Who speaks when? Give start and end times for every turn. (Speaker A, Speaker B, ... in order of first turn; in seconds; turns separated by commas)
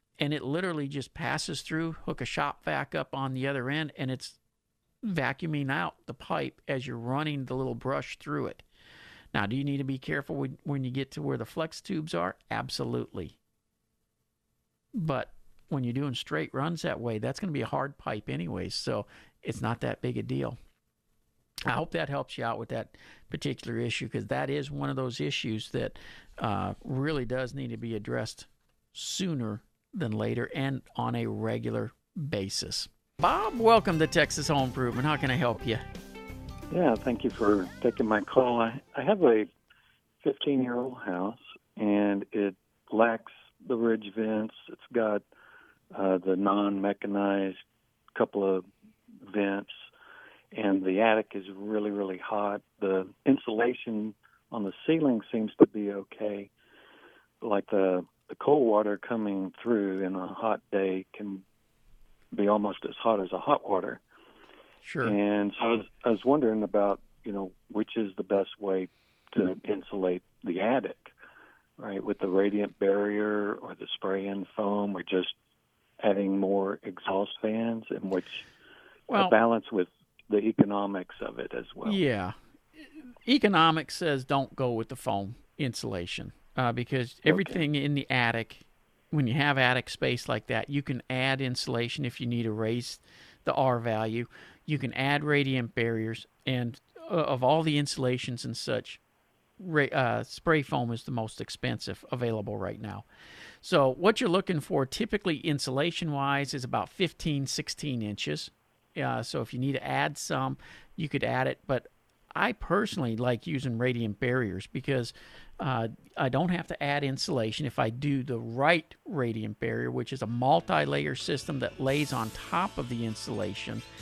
Speaker A: 0.2-4.4, Speaker A: 5.0-8.6, Speaker A: 9.3-13.4, Speaker A: 14.9-20.6, Speaker A: 21.6-35.8, Speaker B: 36.7-39.5, Speaker B: 40.2-45.2, Speaker B: 45.9-47.6, Speaker B: 48.1-48.7, Speaker B: 49.2-49.7, Speaker B: 50.5-56.5, Speaker B: 57.4-61.4, Speaker B: 62.3-64.0, Speaker A: 64.8-65.2, Speaker B: 65.0-71.1, Speaker B: 71.8-75.3, Speaker B: 76.0-78.5, Speaker A: 79.1-79.3, Speaker B: 79.1-82.0, Speaker A: 81.8-99.0, Speaker B: 87.3-87.6, Speaker A: 99.6-103.1, Speaker A: 103.6-123.8